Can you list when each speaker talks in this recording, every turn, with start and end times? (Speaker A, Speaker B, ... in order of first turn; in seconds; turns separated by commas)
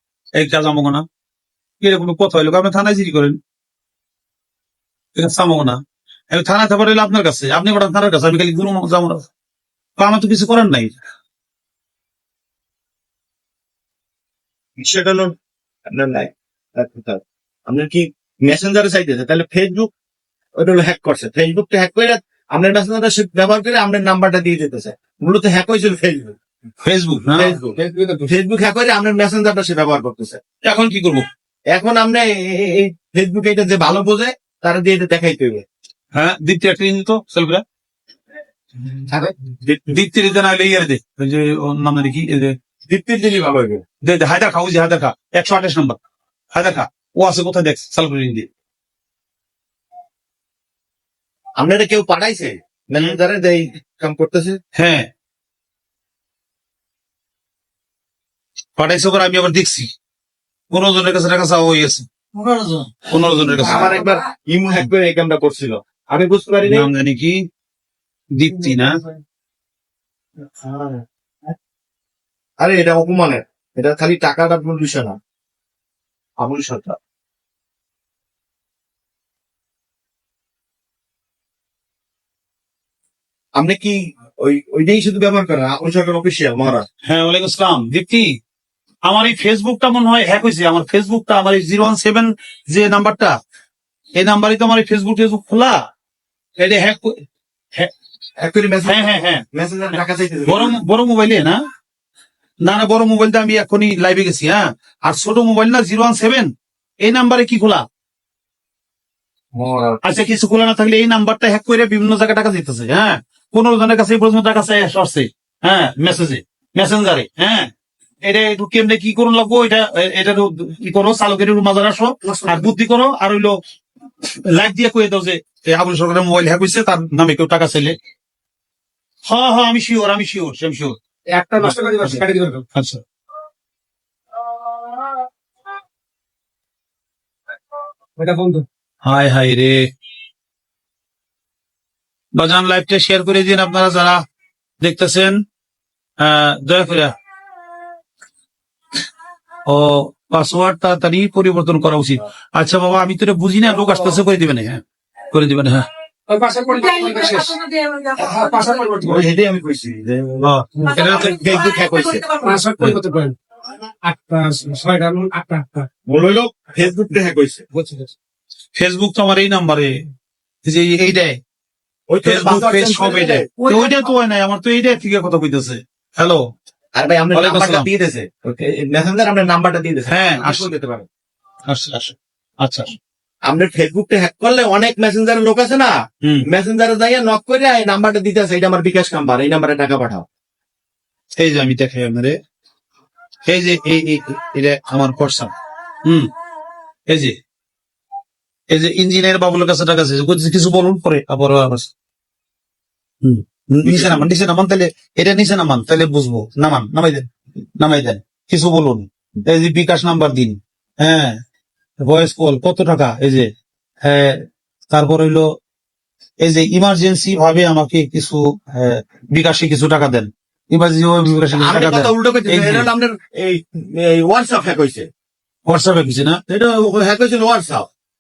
Speaker A: 0.4-1.1, Speaker A: 1.8-3.4, Speaker A: 5.2-5.8, Speaker A: 6.3-9.3, Speaker A: 10.0-11.0, Speaker B: 14.8-15.3, Speaker B: 15.9-19.9, Speaker B: 20.6-26.4, Speaker A: 26.8-27.6, Speaker B: 27.3-30.4, Speaker C: 27.8-28.3, Speaker A: 30.6-31.2, Speaker B: 31.7-35.6, Speaker A: 36.2-37.6, Speaker B: 39.1-40.0, Speaker A: 39.9-42.5, Speaker B: 42.9-43.8, Speaker A: 44.0-46.0, Speaker A: 46.5-48.5, Speaker B: 51.6-54.6, Speaker A: 54.8-55.1, Speaker A: 58.8-59.9, Speaker A: 60.7-62.1, Speaker C: 62.4-62.9, Speaker A: 63.1-64.0, Speaker B: 63.6-66.9, Speaker A: 66.7-67.4, Speaker A: 68.4-69.0, Speaker B: 70.6-71.5, Speaker B: 72.6-75.2, Speaker B: 76.4-77.0, Speaker B: 83.6-86.9, Speaker A: 87.1-88.3, Speaker A: 89.1-93.3, Speaker A: 94.2-95.8, Speaker A: 96.6-97.2, Speaker B: 98.4-100.8, Speaker A: 98.9-99.5, Speaker A: 100.5-101.6, Speaker A: 102.6-106.5, Speaker A: 107.0-107.8, Speaker B: 109.5-110.0, Speaker A: 110.0-117.7, Speaker A: 118.2-123.5, Speaker C: 122.2-122.7, Speaker A: 124.3-128.0, Speaker A: 129.3-131.0, Speaker C: 131.3-132.6, Speaker A: 131.6-132.2, Speaker A: 132.8-133.0, Speaker C: 138.2-138.7, Speaker A: 139.1-139.8, Speaker A: 142.4-144.2, Speaker A: 144.8-145.3, Speaker A: 146.2-147.1, Speaker A: 149.7-154.8, Speaker A: 155.3-155.9, Speaker C: 156.3-159.2, Speaker B: 159.0-162.3, Speaker A: 160.4-161.4, Speaker C: 160.8-161.1, Speaker C: 162.4-163.4, Speaker C: 164.0-165.9, Speaker B: 166.1-167.6, Speaker C: 167.7-168.1, Speaker A: 168.8-169.9, Speaker A: 170.7-171.4, Speaker B: 172.1-173.5, Speaker A: 172.2-176.4, Speaker C: 173.7-174.0, Speaker B: 176.9-181.1, Speaker A: 177.3-177.9, Speaker A: 180.1-180.7, Speaker A: 181.7-182.9, Speaker B: 183.4-190.3, Speaker A: 191.4-192.3, Speaker A: 193.5-195.5, Speaker A: 196.0-196.3, Speaker A: 197.1-197.4, Speaker A: 198.7-201.9, Speaker A: 203.2-207.3, Speaker B: 203.9-204.2, Speaker A: 207.8-211.4, Speaker A: 212.0-213.5, Speaker A: 214.0-215.4, Speaker A: 216.4-222.9, Speaker B: 221.6-225.1, Speaker A: 225.7-226.4, Speaker B: 226.5-227.9